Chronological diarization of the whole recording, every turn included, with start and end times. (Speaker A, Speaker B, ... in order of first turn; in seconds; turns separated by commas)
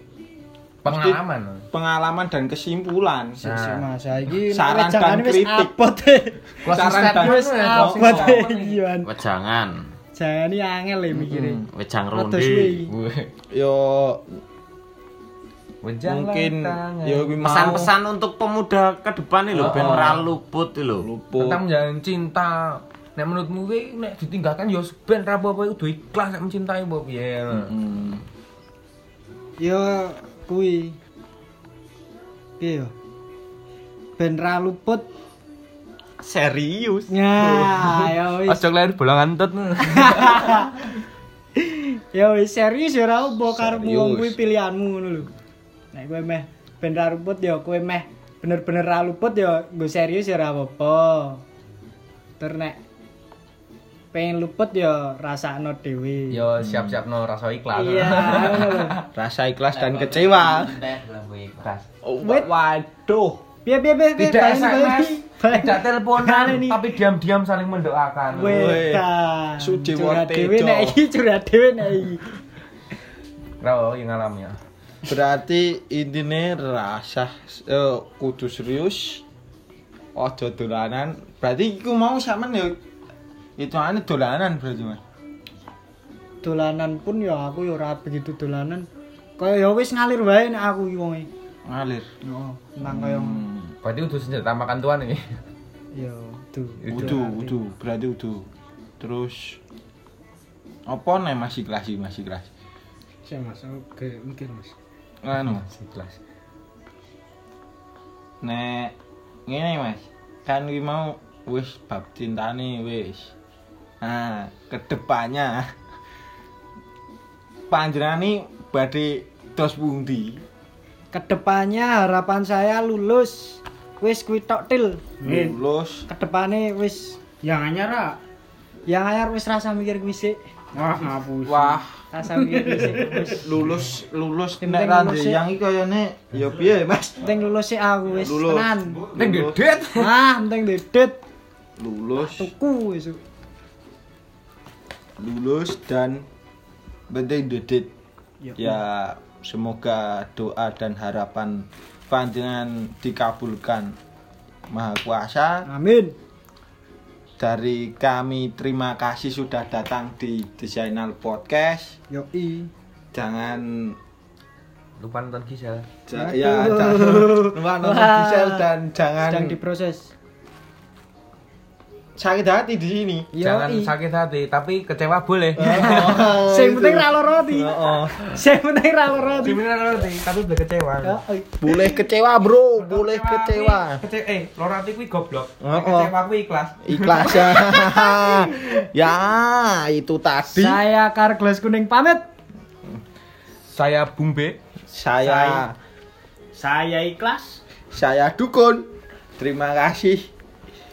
Speaker A: 0.8-1.7, Speaker B: 0.9-1.2, Speaker B: 1.7-3.4, Speaker C: 3.4-9.1, Speaker A: 3.4-3.9, Speaker B: 4.5-5.7, Speaker A: 6.6-8.8, Speaker B: 6.7-8.4, Speaker D: 9.0-9.9, Speaker C: 10.2-12.9, Speaker B: 11.1-11.7, Speaker D: 11.7-12.8, Speaker A: 12.9-13.3, Speaker B: 13.5-14.3, Speaker A: 15.8-17.9, Speaker B: 16.1-17.9, Speaker D: 17.4-21.1, Speaker A: 19.5-20.3, Speaker B: 19.6-20.0, Speaker B: 21.0-21.6, Speaker A: 21.4-27.7, Speaker B: 27.5-28.2, Speaker C: 29.6-31.0, Speaker C: 32.6-32.9, Speaker C: 34.2-35.1, Speaker D: 36.2-37.1, Speaker C: 37.1-38.6, Speaker A: 38.5-40.8, Speaker C: 39.9-40.8, Speaker C: 41.6-45.3, Speaker B: 43.6-44.3, Speaker A: 43.7-44.1, Speaker C: 45.9-51.4, Speaker C: 52.4-52.8, Speaker C: 54.1-56.5, Speaker A: 56.3-59.0, Speaker B: 56.6-57.0, Speaker C: 57.7-59.0, Speaker B: 59.1-60.8, Speaker D: 59.7-61.7, Speaker A: 61.6-61.9, Speaker B: 62.0-63.4, Speaker C: 62.2-62.5, Speaker C: 63.6-66.8, Speaker A: 64.2-68.8, Speaker B: 68.3-69.0, Speaker C: 68.3-72.2, Speaker B: 69.6-71.0, Speaker A: 73.6-74.6, Speaker B: 75.1-79.2, Speaker B: 80.2-82.8, Speaker B: 83.6-85.0, Speaker C: 86.4-88.9, Speaker C: 89.4-91.3, Speaker B: 91.7-92.1, Speaker C: 92.2-93.4, Speaker B: 92.8-93.8, Speaker A: 93.8-95.2, Speaker C: 96.0-97.6, Speaker A: 96.8-97.2, Speaker B: 96.9-98.5, Speaker B: 99.0-99.6, Speaker B: 100.9-102.5, Speaker E: 103.2-104.8, Speaker B: 105.2-105.7, Speaker A: 105.3-106.2, Speaker B: 108.4-109.0, Speaker B: 109.5-113.3, Speaker B: 114.0-115.7, Speaker B: 117.7-120.4, Speaker C: 121.1-125.2, Speaker E: 125.2-125.6, Speaker B: 125.2-126.1, Speaker C: 126.1-127.2, Speaker E: 127.4-128.2, Speaker C: 128.9-130.4, Speaker E: 130.7-131.8, Speaker B: 131.5-132.0, Speaker C: 132.1-133.5, Speaker E: 132.3-133.3, Speaker B: 133.4-137.2, Speaker C: 134.6-135.4, Speaker C: 137.2-139.0, Speaker B: 138.1-139.6, Speaker A: 139.1-140.1, Speaker C: 140.0-141.2, Speaker B: 141.8-142.5, Speaker C: 142.2-143.2, Speaker B: 145.2-146.3, Speaker B: 147.1-147.9, Speaker C: 148.4-148.8, Speaker B: 148.6-154.0, Speaker B: 154.7-155.7, Speaker C: 155.7-156.2, Speaker B: 157.4-162.0, Speaker C: 162.1-162.7, Speaker B: 163.1-164.0, Speaker A: 165.0-165.9, Speaker B: 166.1-169.6, Speaker C: 166.2-168.7, Speaker C: 169.3-170.1, Speaker B: 172.2-173.3, Speaker C: 173.3-173.9, Speaker A: 173.4-176.3, Speaker B: 175.6-178.1, Speaker C: 175.6-179.6, Speaker A: 179.4-181.2, Speaker C: 181.0-182.0, Speaker B: 181.6-184.0, Speaker A: 182.8-188.2, Speaker B: 185.6-186.1, Speaker B: 186.8-190.8, Speaker C: 190.5-192.2, Speaker A: 193.7-194.6, Speaker B: 194.9-195.8, Speaker E: 196.5-197.6, Speaker B: 197.9-200.3